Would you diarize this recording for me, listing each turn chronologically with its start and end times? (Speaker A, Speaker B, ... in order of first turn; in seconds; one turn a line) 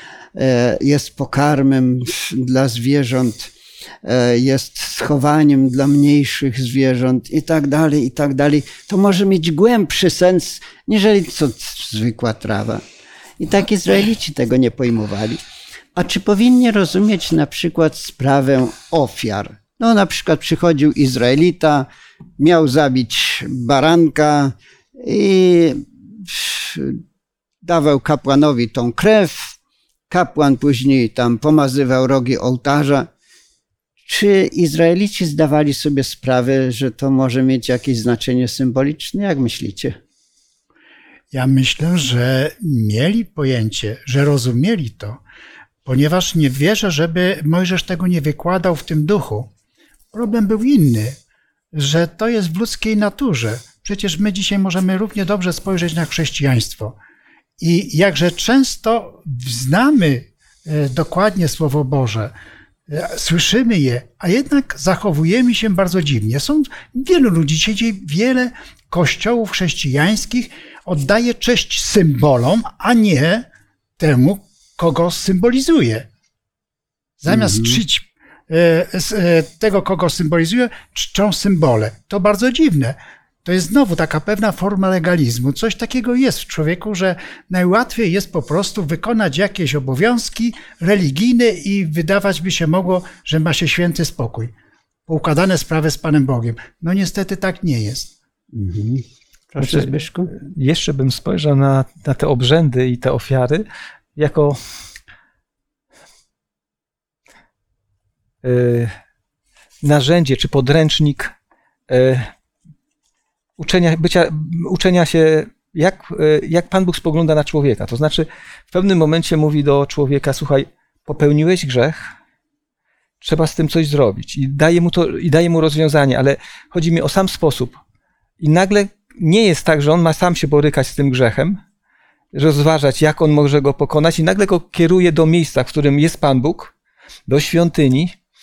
Speaker A: 0.4-3.5
Speaker A: 4.0-12.8
Speaker A: 13.4-15.4
Speaker A: 15.9-21.9
Speaker A: 22.4-27.0
Speaker A: 27.6-29.6
Speaker A: 30.1-33.1
Speaker A: 34.0-40.0
Speaker B: 41.3-45.2
Speaker B: 45.9-49.5
Speaker B: 50.1-51.1
Speaker B: 51.7-57.0
Speaker B: 57.6-62.3
Speaker B: 62.9-73.5
Speaker B: 74.0-76.1
Speaker B: 77.2-94.5
Speaker A: 77.3-77.8
Speaker B: 95.1-98.1
Speaker A: 98.5-100.3
Speaker C: 99.6-103.6
Speaker C: 104.2-104.6
Speaker C: 108.4-108.9
Speaker C: 109.8-111.3
Speaker C: 111.9-112.3
Speaker C: 113.6-122.1
Speaker C: 123.2-127.8
Speaker C: 128.4-131.6
Speaker C: 132.3-136.7
Speaker C: 137.3-138.2